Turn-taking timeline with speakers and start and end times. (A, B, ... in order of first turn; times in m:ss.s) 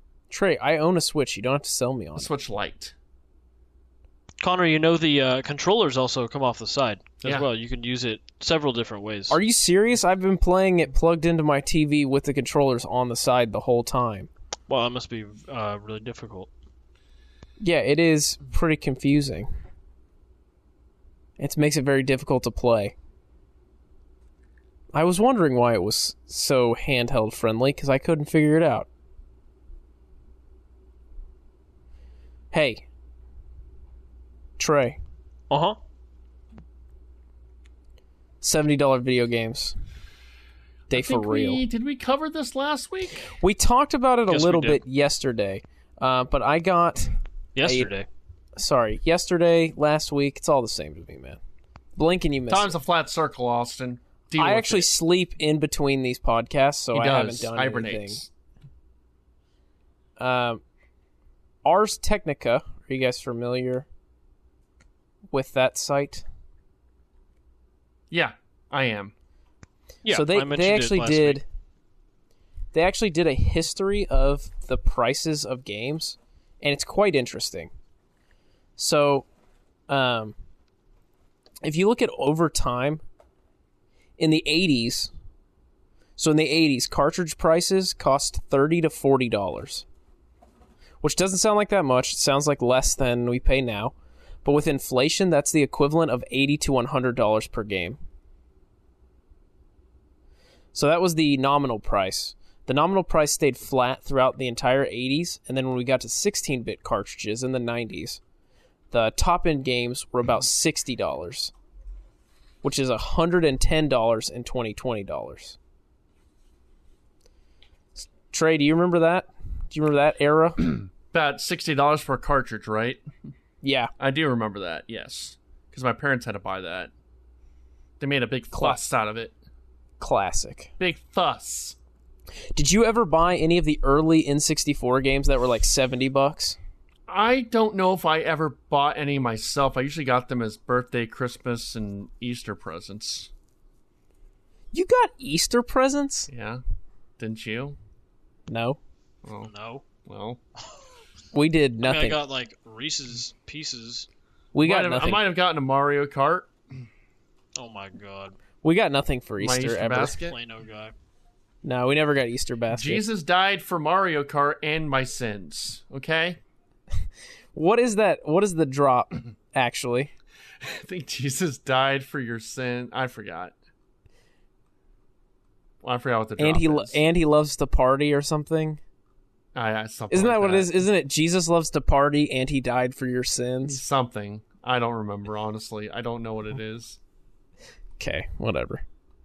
0:00.3-0:02.3 A
0:02.2-0:03.0 B
0:04.4-0:09.4 C
0:09.3-0:14.3 A
0:14.7-0:16.5 C
0:17.6-0:19.5 A
0:21.4-0:22.9 A
0:24.9-0:28.9 A
0:32.5-0:32.8 A
0:34.6-0:35.0 A
0:35.5-0:35.8 A
0:38.4-0:39.8 A
0:40.9-0:41.6 A
0:40.9-0:43.3 B
0:43.4-0:47.9 A
0:44.3-0:44.8 C
0:47.6-0:48.1 C
0:48.6-0:51.4 A
0:52.0-0:52.8 A
0:52.5-0:54.9 B
0:54.4-0:58.2 A
0:56.9-0:58.3 B
1:00.2-1:00.6 A
1:01.6-1:03.9 A
1:05.3-1:06.2 A
1:08.1-1:09.1 B
1:10.0-1:11.4 C
1:10.1-1:11.4 A
1:12.7-1:17.7 A
1:18.8-1:19.3 A
1:19.9-1:20.4 A
1:21.6-1:23.0 A
1:24.2-1:25.1 A
1:26.2-1:29.8 A
1:31.0-1:38.0 A
1:40.7-1:48.2 A
1:48.9-1:51.5 A
1:52.6-1:55.6 A
1:58.0-2:00.7 A
2:01.1-2:03.0 B
2:03.6-2:03.9 A
2:04.0-2:06.9 B
2:08.0-2:09.4 B
2:08.5-2:08.8 A
2:10.0-2:10.7 A
2:10.8-2:11.8 B
2:12.6-2:16.6 A
2:17.1-2:23.3 B
2:24.7-2:26.3 A
2:26.3-2:26.6 B
2:27.2-2:27.8 B
2:28.5-2:28.8 A
2:29.2-2:29.5 B
2:29.4-2:29.8 C
2:30.0-2:30.4 B
2:31.3-2:32.2 A
2:31.8-2:34.1 C
2:34.5-2:35.2 A
2:34.6-2:36.5 B
2:37.6-2:38.4 C
2:38.6-2:40.2 A
2:39.4-2:40.4 B
2:40.1-2:40.9 C
2:41.6-2:43.0 A
2:42.7-2:46.4 B
2:47.5-2:50.1 A
2:50.6-2:53.6 B
2:55.8-2:57.0 B
2:56.4-2:58.8 A
2:59.6-3:00.8 B
3:00.1-3:03.8 A
3:03.7-3:07.0 B
3:08.0-3:08.8 A